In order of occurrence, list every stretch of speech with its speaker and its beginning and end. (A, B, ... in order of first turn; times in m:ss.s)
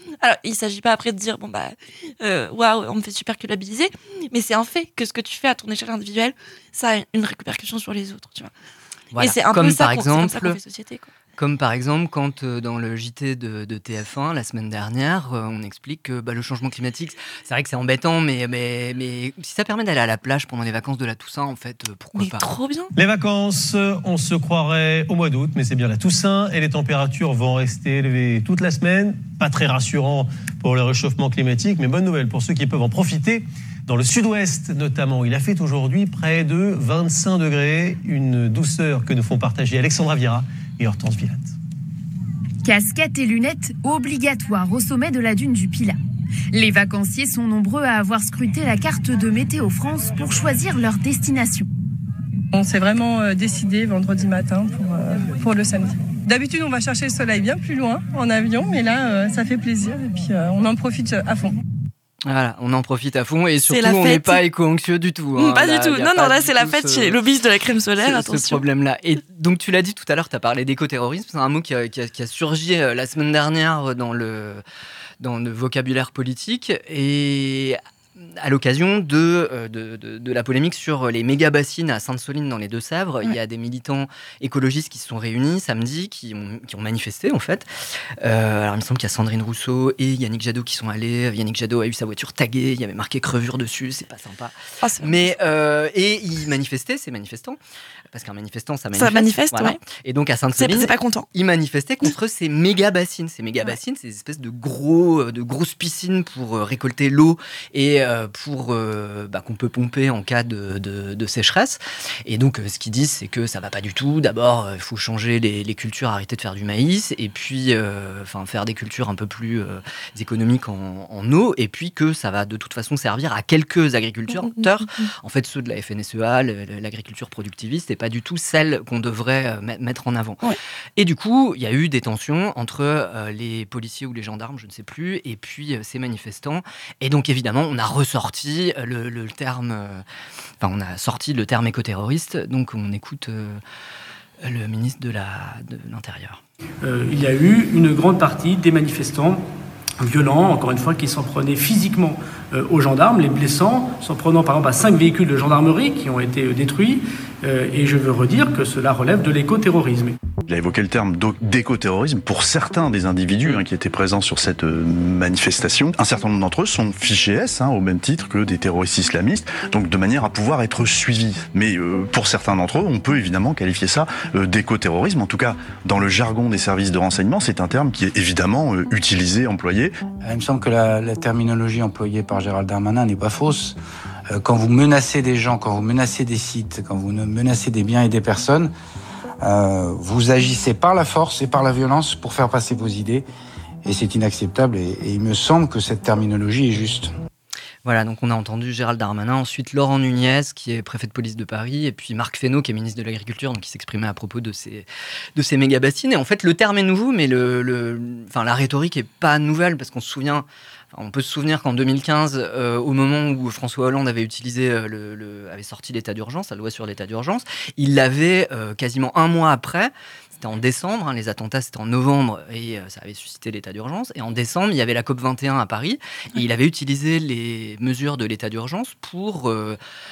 0:00.2-0:08.5 A
0:09.1-0:10.6 B
0:09.2-0:11.1 A
0:11.4-0:22.5 B
0:22.2-0:22.9 A
0:22.9-0:41.5 C
0:42.6-0:46.0 D
0:46.5-0:51.7 D
0:52.5-1:01.6 E
1:02.2-1:07.2 B
1:03.7-1:04.4 A
1:05.3-1:08.6 A
1:08.0-1:14.6 B
1:15.2-1:27.7 B
1:28.2-1:37.6 B
1:34.8-1:35.3 A
1:38.1-2:10.4 B
1:39.0-1:39.8 A
1:40.6-1:41.2 A
2:04.3-2:05.1 A
2:11.0-2:20.0 B
2:20.6-2:23.6 B
2:24.4-2:26.4 B
2:26.8-2:29.4 F
2:30.0-2:40.1 F
2:40.5-3:00.0 G
3:00.2-3:03.8 H
3:04.3-3:08.7 H
3:09.4-3:13.2 H
3:13.8-3:17.1 H
3:17.8-3:49.8 B